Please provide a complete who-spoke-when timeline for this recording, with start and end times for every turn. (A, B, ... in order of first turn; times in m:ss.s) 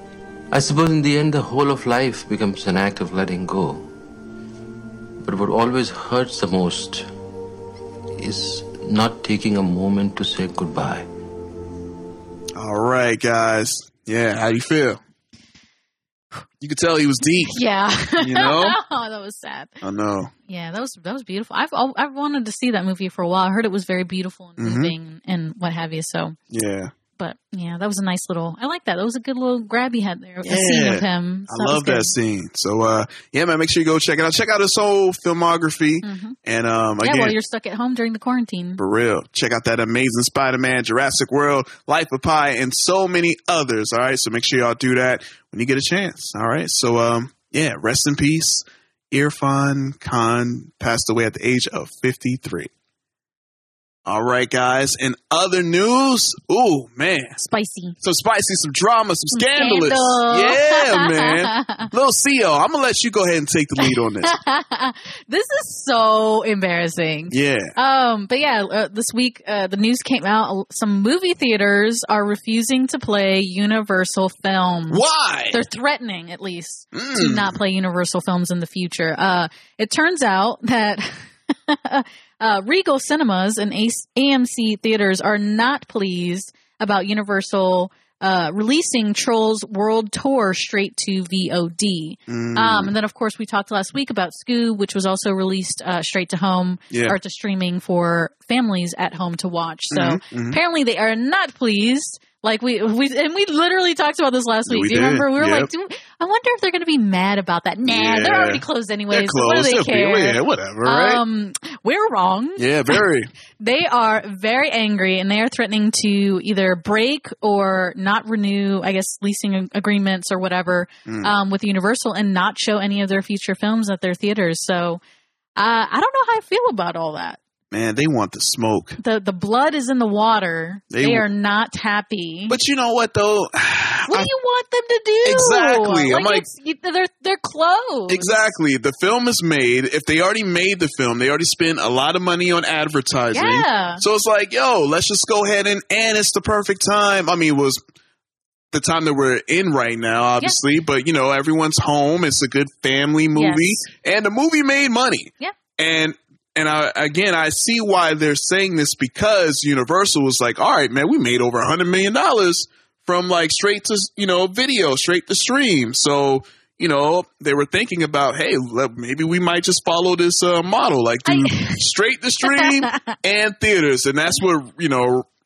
0:00.5-0:03.9 A
0:05.2-0:07.1 A
0:08.2-0:11.1 A
0:12.6-0:15.0 B
0:16.6-0:17.5 B
0:17.5-0:19.7 C
0:18.2-0:18.8 B
0:19.8-0:20.3 B
0:20.5-0:26.4 C
0:24.6-0:24.9 B
0:26.5-0:26.9 B
0:27.2-0:32.1 C
0:30.4-0:37.3 B
0:36.0-0:36.4 C
0:37.0-0:38.8 C
0:38.8-0:52.7 B
0:54.0-0:57.4 B
0:57.4-0:58.0 C
0:58.0-1:04.3 B
0:59.3-1:01.9 C
1:03.8-1:15.0 C
1:07.3-1:07.7 B
1:14.9-1:15.6 B
1:15.5-1:53.0 C
1:16.9-1:17.6 B
1:32.3-1:32.9 B
1:36.9-1:37.2 B
1:39.9-1:40.6 B
1:44.7-1:45.7 B
1:47.8-1:51.2 B
1:52.6-1:53.3 B
1:53.6-2:05.0 C
2:01.0-2:01.3 B
2:05.6-2:07.4 C
2:07.7-2:09.0 B
2:09.0-2:12.6 C
2:10.9-2:11.3 B
2:12.5-2:14.3 B
2:14.1-2:18.5 C
2:15.2-2:16.4 B
2:18.1-2:27.8 B
2:23.3-2:24.0 C
2:28.7-2:55.2 B
2:33.3-2:33.9 C
2:51.3-2:51.8 C
2:52.4-2:53.1 C